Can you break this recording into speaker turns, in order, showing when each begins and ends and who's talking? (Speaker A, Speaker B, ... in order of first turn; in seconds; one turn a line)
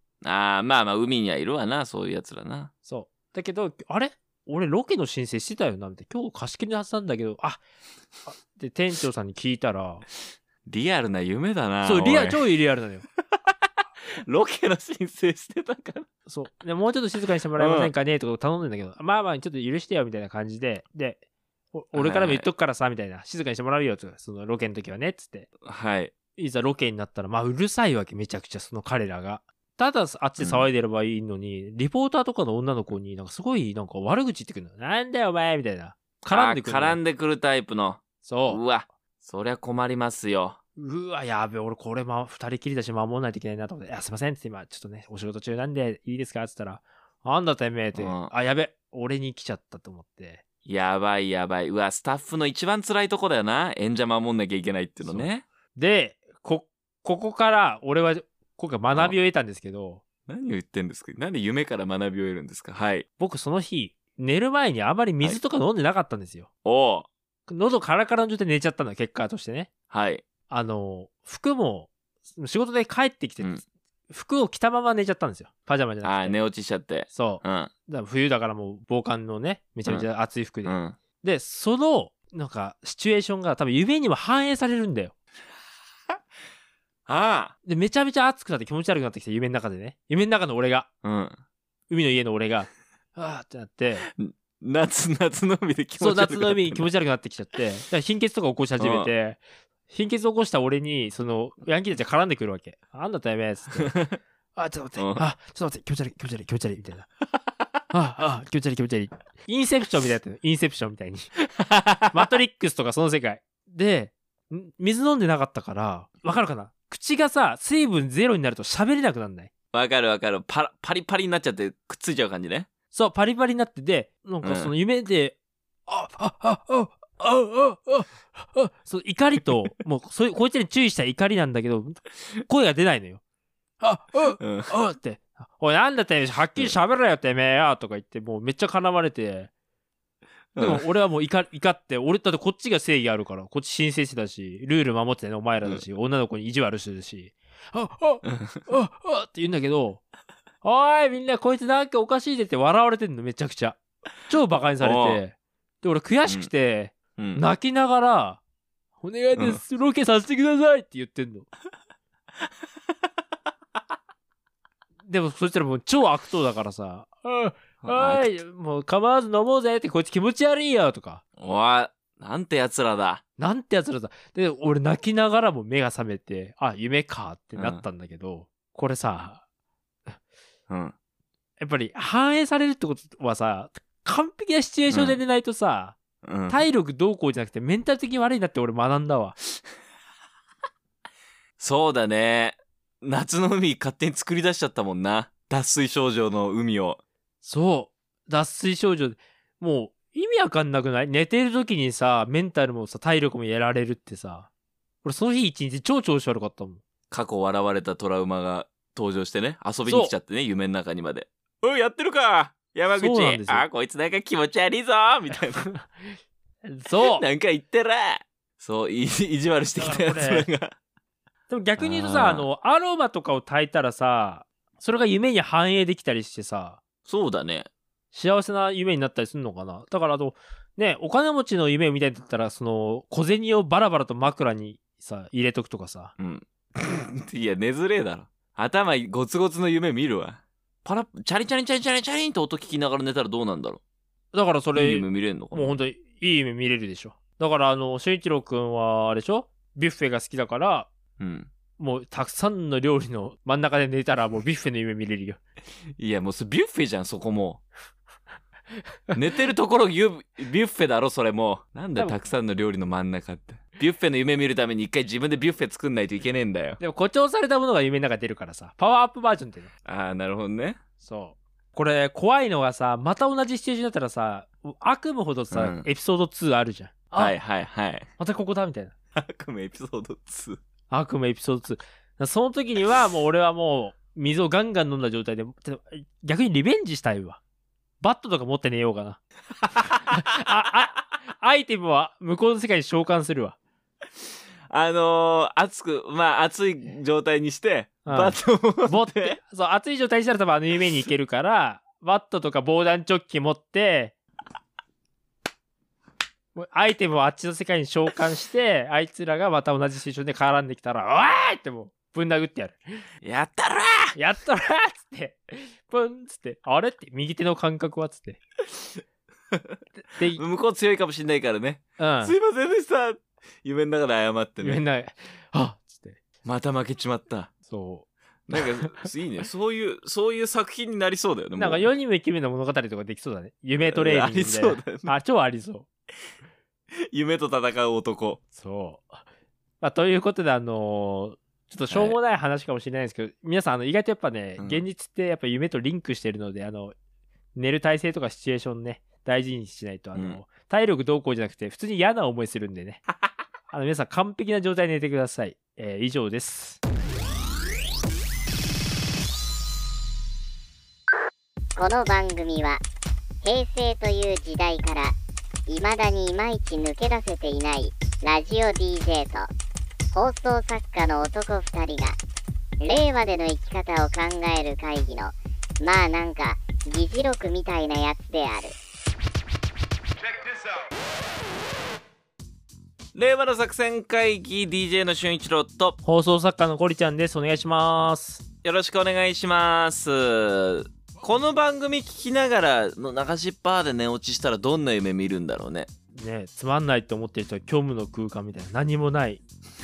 Speaker A: 0.2-2.7
Speaker B: 2.9-7.6
Speaker B: 8.3-10.1
Speaker A: 10.7-12.4
Speaker B: 11.8-13.1
Speaker A: 14.1-16.1
Speaker B: 16.3-21.2
Speaker A: 17.6-17.9
Speaker B: 21.7-25.5
Speaker A: 21.9-22.4
Speaker A: 25.6-26.1
Speaker B: 26.4-37.0
Speaker A: 30.4-30.7
Speaker A: 36.2-40.6
Speaker B: 38.2-38.6
Speaker B: 40.8-50.4
Speaker A: 47.9-48.3
Speaker A: 50.6-55.5
Speaker B: 55.0-60.0
Speaker A: 58.9-59.1
Speaker A: 60.3-63.0
Speaker B: 63.2-66.5
Speaker A: 66.6-67.1
Speaker B: 67.5-69.7
Speaker A: 69.9-70.2
Speaker B: 70.5-73.5
Speaker B: 74.1-76.4
Speaker A: 76.0-77.7
Speaker B: 77.1-85.1
Speaker A: 80.6-81.0
Speaker A: 87.1-87.5
Speaker B: 87.6-90.9
Speaker A: 91.0-91.4
Speaker B: 91.9-94.1
Speaker A: 94.0-96.9
Speaker B: 96.0-104.0
Speaker A: 98.8-99.1
Speaker A: 103.8-104.2
Speaker B: 104.5-107.1
Speaker A: 105.0-105.2
Speaker B: 107.9-111.3
Speaker A: 111.6-112.1
Speaker B: 112.1-119.5
Speaker A: 119.7-122.7
Speaker B: 122.9-125.3
Speaker A: 124.4-124.7
Speaker B: 125.9-133.2
Speaker B: 133.8-139.5
Speaker A: 134.4-134.7
Speaker A: 140.5-140.8
Speaker B: 140.6-150.0
Speaker A: 148.2-148.6
Speaker B: 150.6-158.4
Speaker A: 154.8-155.2
Speaker A: 157.2-157.4
Speaker B: 159.0-161.5
Speaker A: 159.3-159.6
Speaker B: 165.1-171.2
Speaker A: 167.8-168.3
Speaker A: 171.4-173.2
Speaker B: 173.4-179.4
Speaker A: 177.6-177.8
Speaker A: 180.7-180.9
Speaker B: 181.6-186.0
Speaker A: 184.9-185.2
Speaker A: 186.2-186.6
Speaker B: 186.5-189.3
Speaker A: 191.6-197.0
Speaker B: 197.4-204.5
Speaker B: 205.0-206.8
Speaker A: 207.1-215.7
Speaker B: 209.9-210.1
Speaker B: 212.9-213.6
Speaker B: 215.6-217.2
Speaker A: 217.0-220.7
Speaker B: 219.8-220.5
Speaker B: 221.5-226.8
Speaker A: 221.8-222.5
Speaker A: 227.0-227.7
Speaker B: 228.1-236.1
Speaker A: 236.2-243.8
Speaker B: 244.3-250.9
Speaker A: 244.7-245.8
Speaker A: 251.2-251.5
Speaker B: 251.8-255.4
Speaker A: 256.0-257.6
Speaker A: 259.1-266.8
Speaker B: 266.8-269.7
Speaker A: 269.8-270.8
Speaker B: 271.0-277.4
Speaker A: 275.5-275.9
Speaker A: 277.1-278.1
Speaker B: 278.2-278.9
Speaker A: 279.1-280.6
Speaker B: 280.9-287.4
Speaker B: 288.0-289.2
Speaker A: 289.7-290.5
Speaker B: 289.8-293.6
Speaker A: 294.7-299.4
Speaker B: 298.0-304.1
Speaker B: 306.5-313.0
Speaker A: 313.2-314.1
Speaker B: 314.1-318.4
Speaker A: 318.7-319.0
Speaker A: 319.5-324.8
Speaker B: 320.0-320.4
Speaker B: 322.0-322.3
Speaker B: 324.6-326.2
Speaker A: 326.4-327.5
Speaker B: 327.6-329.1
Speaker A: 328.5-331.9
Speaker B: 331.6-335.9
Speaker A: 333.9-335.1
Speaker A: 337.0-338.4
Speaker B: 338.5-339.2
Speaker B: 339.8-346.9
Speaker A: 341.9-342.2
Speaker A: 344.6-344.8
Speaker B: 347.5-353.0
Speaker A: 350.1-350.4
Speaker B: 353.7-356.8
Speaker C: 361.8-362.8
Speaker C: 363.4-365.1
Speaker C: 365.7-369.5
Speaker C: 370.1-372.2
Speaker C: 372.8-378.8
Speaker A: 383.1-386.0
Speaker B: 386.0-388.4
Speaker A: 388.6-395.9
Speaker B: 396.1-399.4